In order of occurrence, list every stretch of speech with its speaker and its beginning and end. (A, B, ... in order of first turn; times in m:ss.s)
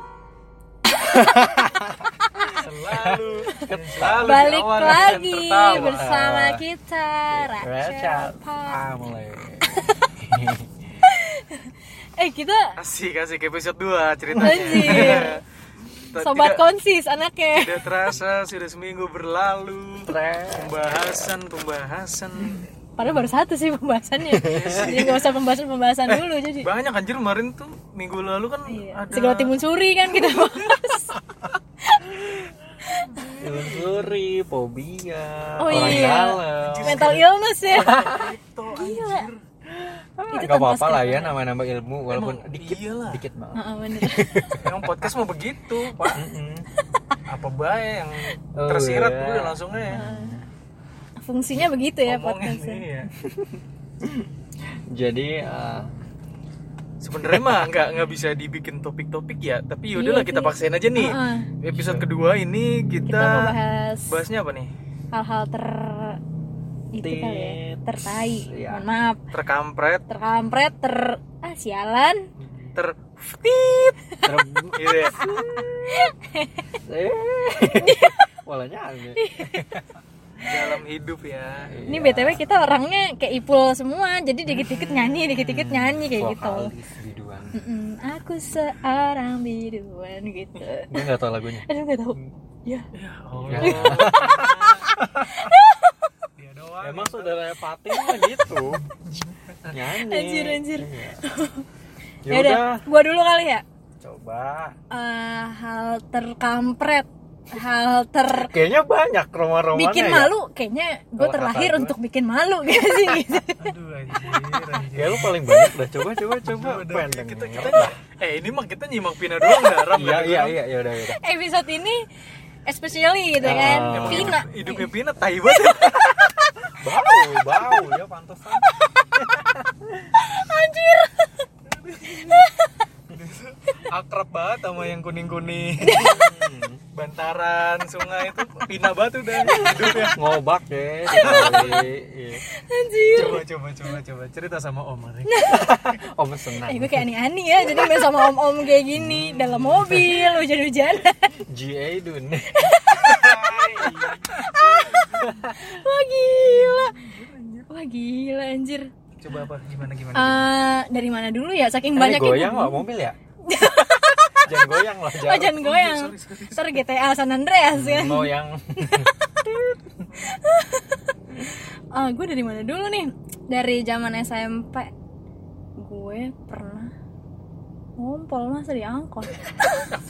0:01.1-0:06.6 A
0:02.2-0:02.6 B
0:02.6-0:06.0 C
0:04.2-0:08.8 B
0:07.3-0:10.9 A
0:09.6-0:10.2 B
0:11.0-0:12.8 B
0:12.8-0:15.4 C
0:14.4-0:15.3 A
0:14.4-0:15.4 B
0:16.1-0:16.6 C
0:16.2-0:17.8 B
0:17.6-0:22.7 C
0:20.0-0:20.9 A
0:23.0-0:26.7 B
0:24.3-0:25.0 A
0:24.4-0:25.3 C
0:26.1-0:29.6 C
0:28.7-0:31.2 B
0:31.8-0:32.3 B
0:32.8-0:33.3 B
0:33.2-0:34.2 C
0:33.4-0:37.2 A
0:35.6-0:38.0 B
0:35.6-0:39.4 C
0:37.7-0:38.4 A
0:38.7-0:39.3 B
0:39.7-0:45.1 A
0:40.3-0:41.4 B
0:42.1-0:43.2 C
0:43.5-0:44.6 B
0:44.6-0:46.2 C
0:46.1-0:46.7 A
0:46.8-0:47.2 B
0:47.3-0:50.0 C
0:48.6-0:50.5 A
0:49.9-0:50.4 B
0:51.2-0:52.8 B
0:52.0-0:53.1 C
0:53.2-0:54.3 A
0:54.9-0:55.9 A
0:57.0-1:03.6 C
0:57.2-0:57.7 A
0:59.9-1:01.5 B
1:01.7-1:02.0 A
1:03.0-1:04.2 B
1:04.1-1:04.7 C
1:05.1-1:06.2 B
1:06.9-1:09.2 B
1:07.0-1:08.8 A
1:09.3-1:10.1 C
1:10.1-1:12.3 B
1:12.4-1:12.7 A
1:13.4-1:14.7 B
1:14.2-1:16.1 A
1:14.7-1:15.3 C
1:15.2-1:16.8 B
1:16.8-1:19.8 A
1:17.8-1:18.3 B
1:19.2-1:19.8 B
1:20.4-1:20.7 B
1:20.4-1:21.8 C
1:21.6-1:22.5 A
1:21.9-1:26.7 B
1:24.5-1:27.6 A
1:27.5-1:31.1 B
1:30.9-1:31.7 A
1:31.6-1:32.9 B
1:32.9-1:34.9 C
1:33.4-1:35.5 A
1:33.6-1:36.1 B
1:36.4-1:37.4 C
1:36.8-1:38.9 A
1:37.9-1:38.3 B
1:38.9-1:39.8 C
1:39.7-1:41.2 A
1:40.0-1:41.7 B
1:42.2-1:42.8 A
1:42.3-1:43.6 B
1:44.0-1:44.8 A
1:44.9-1:48.5 B
1:48.5-1:50.3 A
1:49.8-1:53.6 B
1:51.2-1:52.0 A
1:53.6-1:55.4 C
1:54.9-1:58.0 A
1:55.4-1:55.7 B
1:56.4-2:00.6 C
1:59.9-2:01.2 A
2:01.2-2:02.0 B
2:02.7-2:04.9 B
2:03.4-2:04.4 A
2:03.5-2:06.5 C
2:06.7-2:10.2 A
2:07.1-2:07.9 B
2:10.2-2:11.5 B
2:11.8-2:12.4 C
2:12.0-2:12.8 B
2:13.1-2:16.2 C
2:15.8-2:16.3 B
2:15.9-2:16.8 A
2:16.9-2:20.2 C
2:19.4-2:20.1 B
2:19.6-2:22.4 A
2:21.1-2:21.8 B
2:21.1-2:21.9 C
2:22.4-2:23.4 B
2:23.1-2:25.3 C
2:25.3-2:25.7 B
2:25.5-2:27.1 A
2:26.6-2:31.4 B
2:28.9-2:30.4 A
2:31.4-2:35.8 A
2:32.5-2:37.1 B
2:33.0-2:35.5 C
2:36.4-2:37.7 C
2:37.7-2:38.9 B
2:39.2-2:40.4 C
2:40.2-2:42.8 B
2:42.0-2:43.2 A
2:43.4-2:49.4 B
2:44.5-2:45.6 A
2:45.5-2:46.8 C
2:47.7-2:49.7 A
2:50.1-2:50.4 C
2:50.2-2:51.0 B
2:51.9-2:54.9 B
2:55.8-2:56.9 B
2:58.0-2:59.9 B